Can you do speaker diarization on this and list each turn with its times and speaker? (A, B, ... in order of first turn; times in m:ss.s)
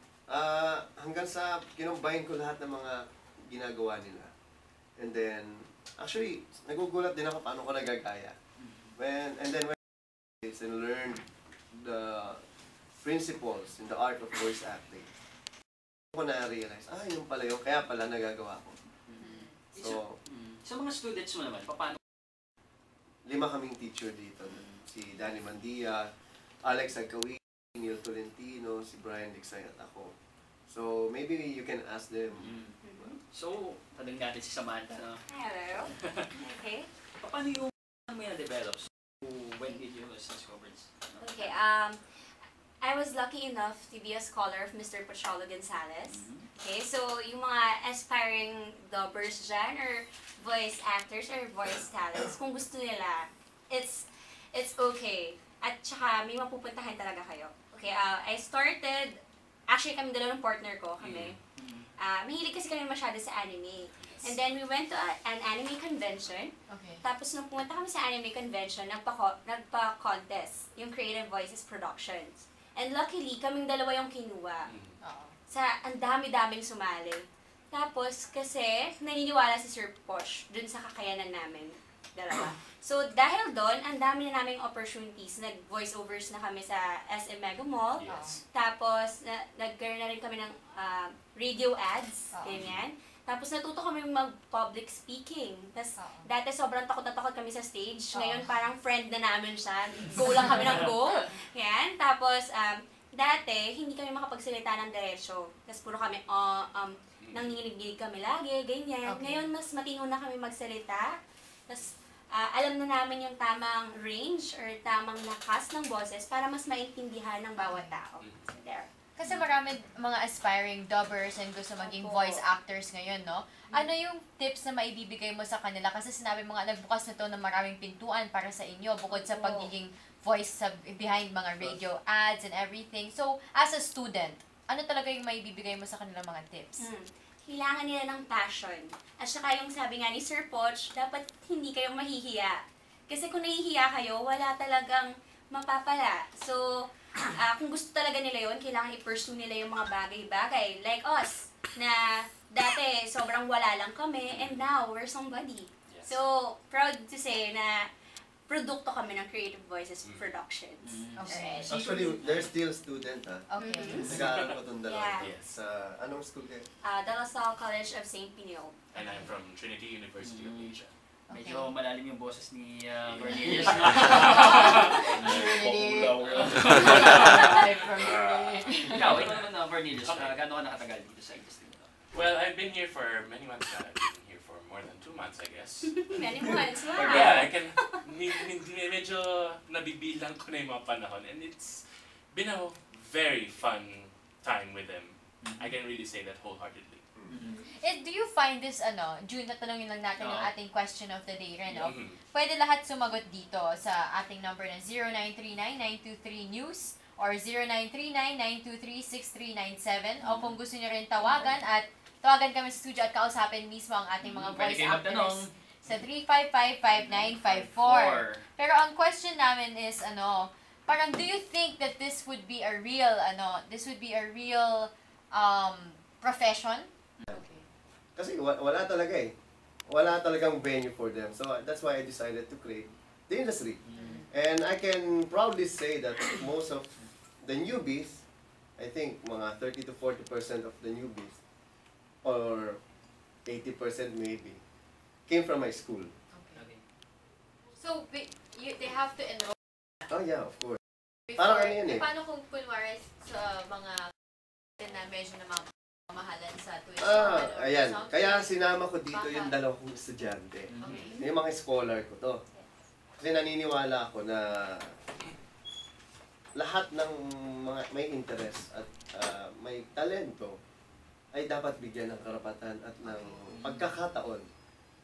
0:00.3-0:04.3 A
0:05.0-0:08.4 A
0:08.6-0:08.9 B
0:09.0-0:12.4 A
0:13.0-0:15.1 A
0:16.1-0:18.8 A
0:19.1-0:22.0 B
0:19.2-0:19.6 C
0:19.8-0:20.2 A
0:23.2-0:26.1 A
0:24.6-0:24.8 B
0:26.6-0:30.1 A
0:30.7-0:33.1 A
0:32.4-0:32.8 B
0:32.8-0:33.2 D
0:33.3-0:35.2 B
0:35.3-0:36.9 D
0:35.9-0:36.3 B
0:37.2-0:41.5 B
0:41.2-0:42.0 D
0:42.8-1:01.4 D
0:46.1-0:46.4 B
1:01.0-1:01.4 E
1:01.6-1:01.9 B
1:02.0-1:14.7 D
1:04.0-1:04.3 E
1:06.7-1:07.0 C
1:14.7-1:15.0 E
1:15.0-1:15.3 C
1:15.5-1:58.9 D
1:28.0-1:28.4 E
1:28.0-1:28.4 C
1:32.3-1:32.6 C
1:32.5-1:32.8 E
1:36.0-1:36.2 C
1:38.1-1:38.5 C
1:47.2-1:47.6 E
1:49.0-1:49.4 C
1:57.6-1:58.0 C
1:58.2-1:58.5 E
1:59.2-2:16.9 C
2:01.8-2:02.4 D
2:09.1-2:09.7 D
2:16.8-2:26.6 D
2:27.2-2:37.9 D
2:34.3-2:34.6 E
2:35.9-2:36.2 E
2:38.5-2:41.7 D
2:40.0-2:40.3 E
2:40.8-2:42.5 B
2:41.2-2:41.7 C
2:41.7-2:43.5 A
2:43.5-2:44.0 C
2:43.8-2:44.1 D
2:44.0-2:44.5 E
2:44.0-2:46.7 A
2:44.8-2:45.3 D
2:45.2-2:45.5 E
2:46.8-2:48.8 D
2:48.9-2:50.9 E
2:50.2-2:54.8 B
2:51.3-2:51.7 C
2:53.0-3:00.4 E
2:53.9-2:59.2 C
2:56.2-2:57.5 B
2:58.9-3:01.9 B
3:02.1-3:17.1 E
3:05.8-3:08.0 D
3:15.4-3:15.7 B
3:17.3-3:17.6 B
3:17.7-3:47.6 C
3:20.2-3:20.5 B
3:21.7-3:22.2 E
3:30.2-3:30.5 B
3:31.2-3:31.5 B
3:34.2-3:35.5 B
3:36.9-3:38.4 B
3:48.2-3:49.3 A
3:49.9-3:58.2 A
3:53.9-3:54.2 B
3:54.0-3:54.3 C
3:58.8-4:01.4 A
4:02.2-4:02.8 A
4:03.4-4:04.6 A
4:05.3-4:06.1 A
4:06.3-4:06.6 C
4:06.6-4:06.8 B
4:07.8-4:09.5 C
4:10.1-4:10.8 A
4:11.3-4:14.1 C
4:11.4-4:12.0 A
4:14.8-4:19.5 C
4:17.0-4:22.4 A
4:20.7-4:21.1 B
4:20.8-4:21.2 C
4:23.2-4:24.9 A
4:26.6-4:30.5 A
4:31.3-4:34.4 A
4:33.0-4:33.7 C